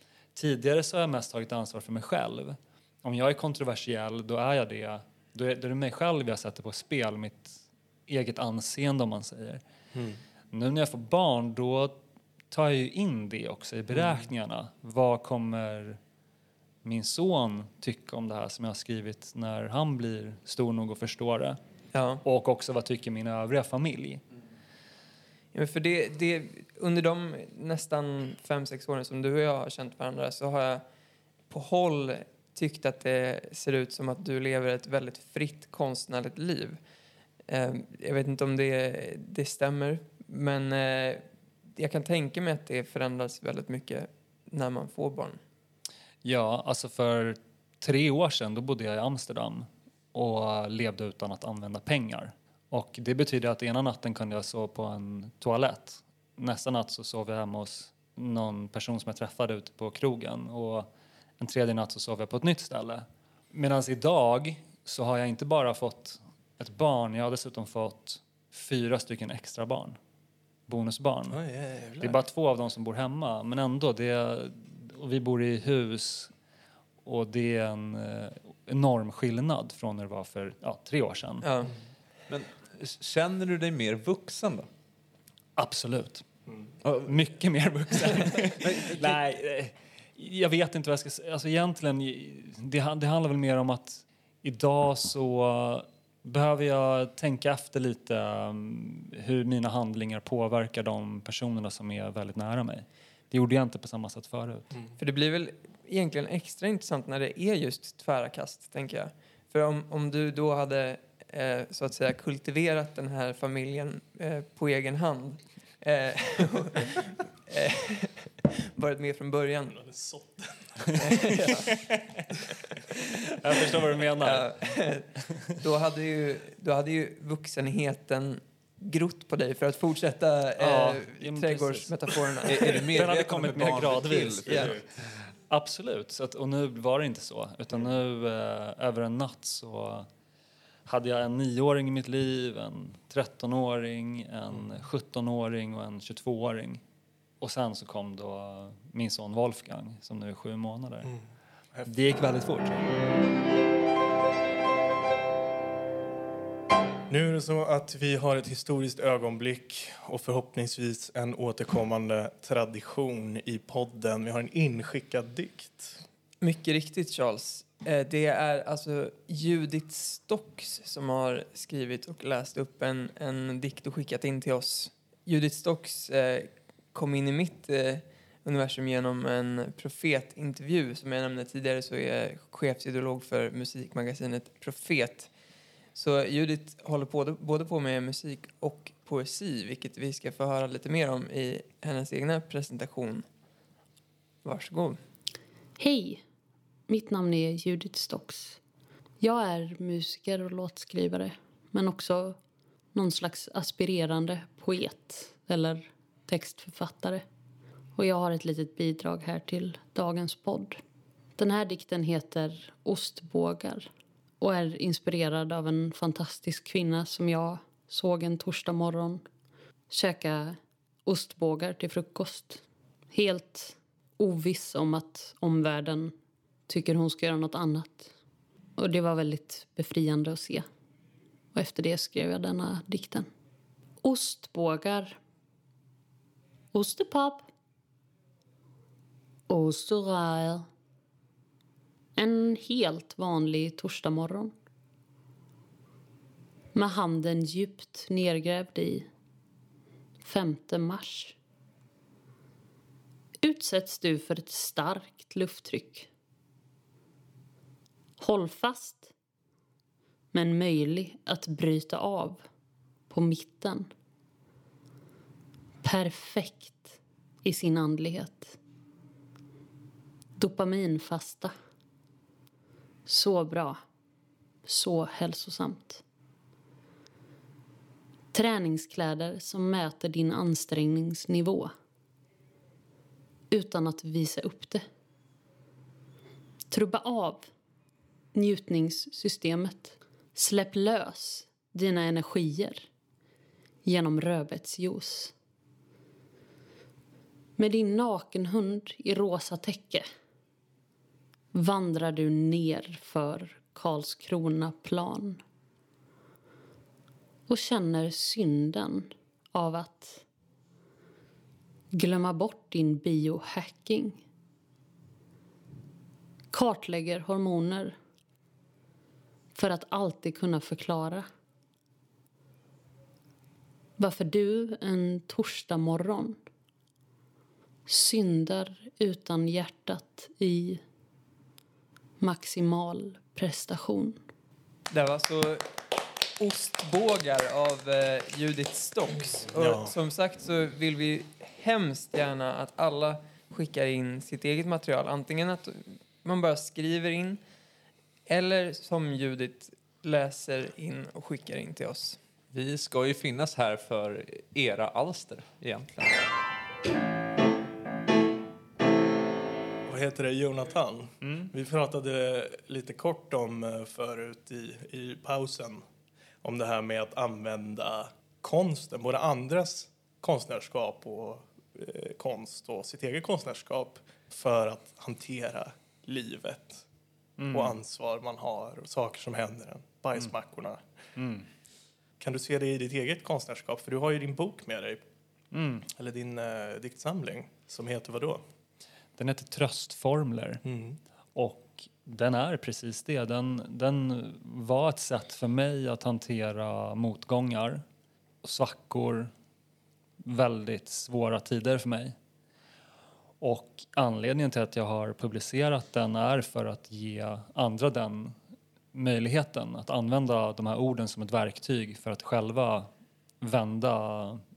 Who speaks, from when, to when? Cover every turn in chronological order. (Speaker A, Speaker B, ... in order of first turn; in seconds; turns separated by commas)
Speaker A: 0.3-9.6, Speaker B: 9.9-10.2, Speaker A: 10.5-16.0, Speaker B: 13.9-14.2, Speaker A: 16.8-21.6, Speaker C: 21.9-22.2, Speaker A: 22.2-24.2, Speaker C: 25.5-30.8, Speaker C: 31.5-36.8, Speaker C: 37.5-41.2, Speaker C: 41.8-45.4, Speaker A: 46.2-70.0, Speaker A: 70.7-71.4, Speaker B: 71.3-72.2, Speaker A: 72.0-76.3, Speaker A: 77.0-81.5, Speaker C: 81.4-81.7, Speaker D: 82.3-84.7, Speaker A: 85.5-86.2, Speaker D: 86.8-87.2, Speaker A: 87.0-104.7, Speaker D: 87.9-89.2, Speaker C: 105.0-119.8, Speaker B: 119.7-121.5, Speaker C: 121.0-121.8, Speaker A: 123.4-124.8, Speaker C: 124.2-132.9, Speaker A: 130.6-131.9, Speaker A: 132.4-140.1, Speaker D: 132.4-134.7, Speaker C: 134.4-134.7, Speaker A: 140.8-146.8, Speaker A: 147.4-151.1, Speaker A: 151.8-152.9, Speaker B: 157.1-166.0, Speaker C: 166.4-185.3, Speaker C: 185.9-193.2, Speaker C: 194.4-195.0, Speaker E: 195.8-196.2, Speaker E: 196.9-198.6, Speaker E: 199.2-202.4, Speaker E: 202.9-207.2, Speaker E: 207.9-210.8, Speaker E: 211.4-213.9, Speaker E: 214.4-219.2, Speaker E: 219.9-226.1, Speaker E: 226.7-228.1, Speaker E: 228.8-230.7, Speaker E: 231.5-233.3, Speaker E: 234.0-235.2, Speaker E: 236.7-237.5, Speaker E: 239.5-240.7, Speaker E: 242.2-244.5, Speaker E: 246.7-249.1, Speaker E: 250.2-251.3, Speaker E: 253.4-256.1, Speaker E: 258.2-259.1, Speaker E: 260.3-262.4, Speaker E: 263.1-263.9, Speaker E: 265.8-268.6, Speaker E: 270.4-271.5, Speaker E: 273.1-273.8, Speaker E: 274.6-276.0, Speaker E: 278.3-281.7, Speaker E: 283.5-284.8, Speaker E: 286.7-287.5, Speaker E: 288.3-292.9, Speaker E: 293.8-295.3, Speaker E: 297.6-300.1, Speaker E: 301.5-305.4, Speaker E: 307.5-310.2, Speaker E: 311.9-314.2, Speaker E: 316.5-317.9, Speaker E: 319.5-321.2, Speaker E: 324.0-326.4, Speaker E: 327.9-330.8, Speaker E: 332.2-334.2, Speaker C: 334.9-335.7, Speaker C: 336.4-347.4, Speaker B: 339.5-339.9, Speaker C: 348.3-352.2, Speaker D: 352.5-356.3, Speaker B: 359.9-365.8, Speaker A: 361.2-361.5, Speaker B: 366.4-376.8, Speaker A: 377.4-377.8, Speaker B: 377.5-380.8, Speaker A: 381.1-381.5, Speaker B: 382.2-385.0, Speaker A: 385.5-385.9, Speaker B: 385.9-388.4, Speaker A: 389.2-390.6, Speaker B: 390.6-391.0, Speaker A: 391.3-397.8, Speaker A: 398.4-399.3, Speaker A: 400.2-402.1, Speaker A: 403.4-408.4, Speaker A: 408.9-412.9, Speaker A: 413.4-414.4